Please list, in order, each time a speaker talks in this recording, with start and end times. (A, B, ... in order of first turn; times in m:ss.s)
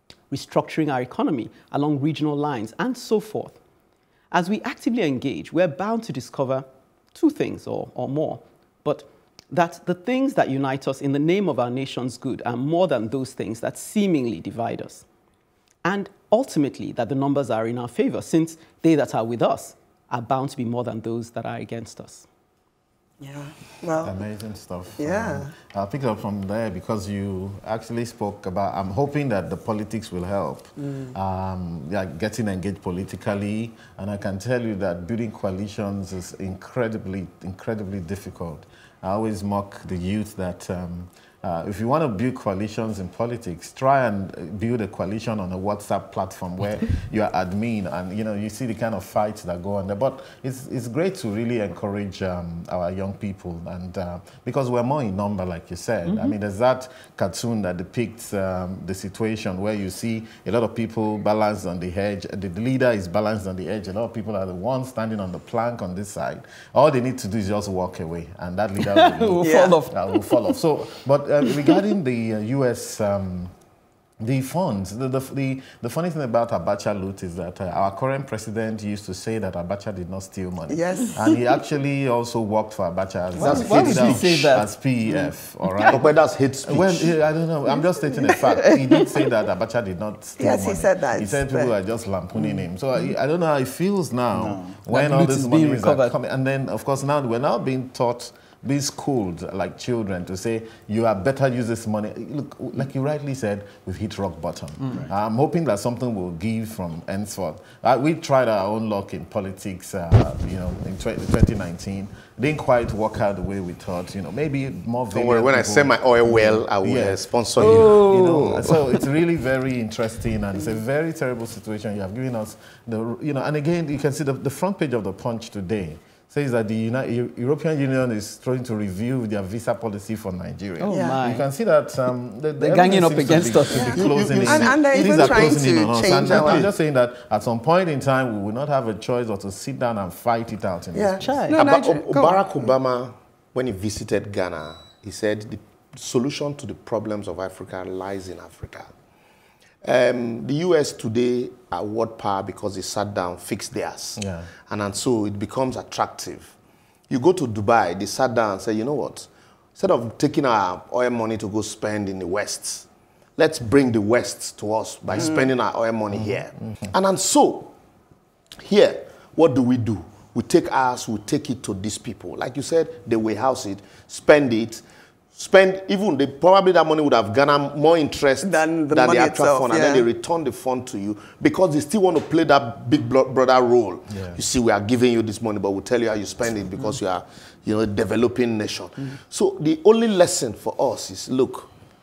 0:00.3-0:03.6 A
0:04.3-0:15.0 A
0:15.8-0:22.3 A
0:23.2-0:24.2 B
0:24.0-1:13.5 C
0:25.0-0:25.5 B
0:56.1-0:56.4 A
1:08.9-1:10.5 A
1:09.4-1:09.8 B
1:14.2-1:26.0 C
1:20.7-1:21.3 B
1:23.4-1:24.3 D
1:23.4-1:26.0 A
1:25.9-1:27.2 D
1:26.6-2:21.5 C
1:28.3-1:29.0 A
1:30.4-1:31.7 B
1:34.9-1:36.2 A
1:55.1-1:58.7 D
1:57.6-1:58.6 A
2:10.8-2:11.4 A
2:10.9-2:11.2 B
2:12.6-2:14.1 A
2:13.8-2:16.7 B
2:13.8-2:16.7 D
2:20.9-2:22.7 B
2:21.2-2:21.6 A
2:21.6-2:28.9 D
2:29.8-2:36.6 D
2:34.2-2:34.5 C
2:37.1-2:47.7 D
2:45.2-2:45.5 B
2:48.6-2:54.8 D
2:55.4-3:11.7 D
2:58.4-3:00.1 B